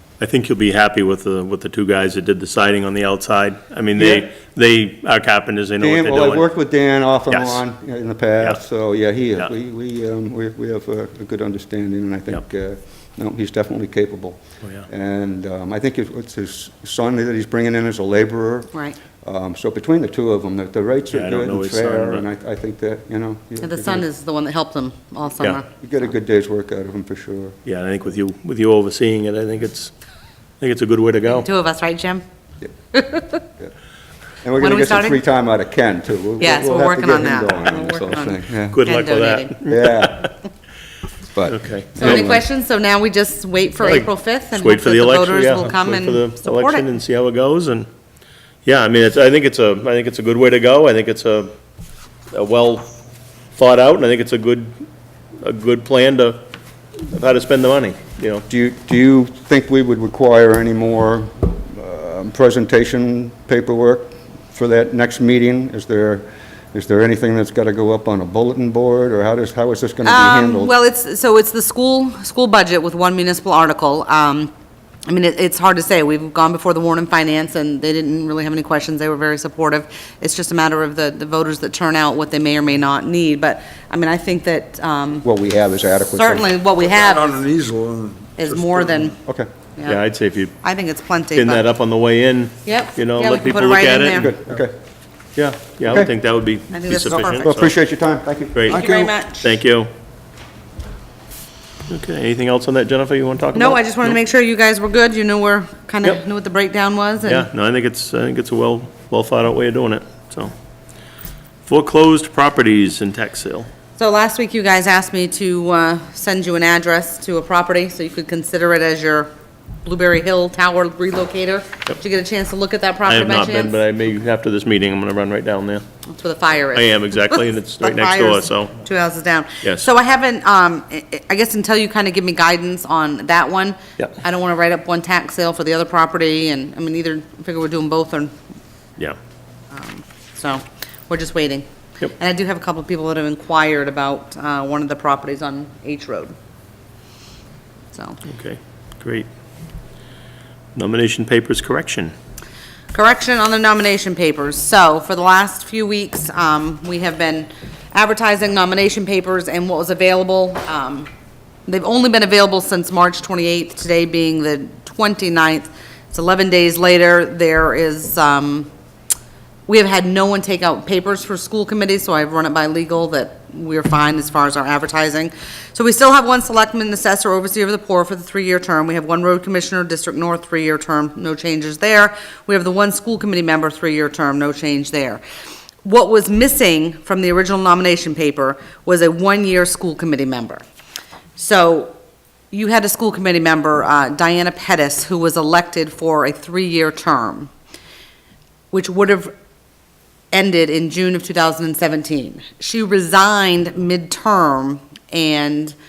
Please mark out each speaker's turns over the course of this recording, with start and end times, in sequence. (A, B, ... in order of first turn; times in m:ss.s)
0:00.2-0:06.4 A
0:04.0-0:04.2 B
0:05.8-0:24.0 B
0:07.3-0:07.6 A
0:21.1-0:22.2 A
0:23.6-0:25.7 C
0:25.7-0:27.6 B
0:27.6-0:29.9 A
0:30.6-0:31.5 A
0:31.3-0:32.2 C
0:32.9-0:33.4 C
0:34.4-0:38.8 B
0:34.6-0:35.2 C
0:36.4-0:39.6 C
0:38.7-0:40.3 A
0:39.7-0:40.3 B
0:41.3-0:42.4 B
0:41.4-0:42.4 A
0:42.0-0:46.8 C
0:43.8-0:47.9 A
0:48.6-0:51.5 A
0:52.3-0:52.9 A
0:53.6-0:54.7 A
0:55.4-0:56.4 A
0:57.0-0:58.4 A
0:58.5-1:10.7 B
1:10.0-1:14.5 C
1:15.1-1:25.2 C
1:25.2-1:26.5 B
1:26.1-1:27.5 C
1:27.0-1:29.1 D
1:28.4-1:29.2 C
1:29.8-1:30.6 A
1:30.6-1:31.6 C
1:31.3-1:34.3 A
1:32.6-1:34.4 C
1:34.2-1:34.7 B
1:35.4-1:37.7 A
1:36.7-1:37.6 C
1:37.1-1:39.1 B
1:38.5-1:38.9 A
1:38.7-1:39.5 C
1:39.4-1:39.9 A
1:41.9-1:44.2 A
1:43.5-1:47.5 C
1:47.2-1:50.5 A
1:51.6-1:53.7 A
1:54.0-1:59.3 C
1:59.8-2:03.8 C
2:03.0-2:05.8 A
2:06.1-2:18.3 C
2:06.7-2:08.8 A
2:19.7-2:26.3 C
2:27.9-2:28.2 C
2:28.2-2:29.3 A
2:30.7-2:32.1 A
2:32.9-2:41.1 C
2:41.7-2:48.7 C
2:49.7-3:05.2 C
3:05.8-3:10.6 C
3:11.4-3:11.9 C
3:12.5-3:17.5 C
3:18.7-3:19.3 C
3:20.3-3:25.7 C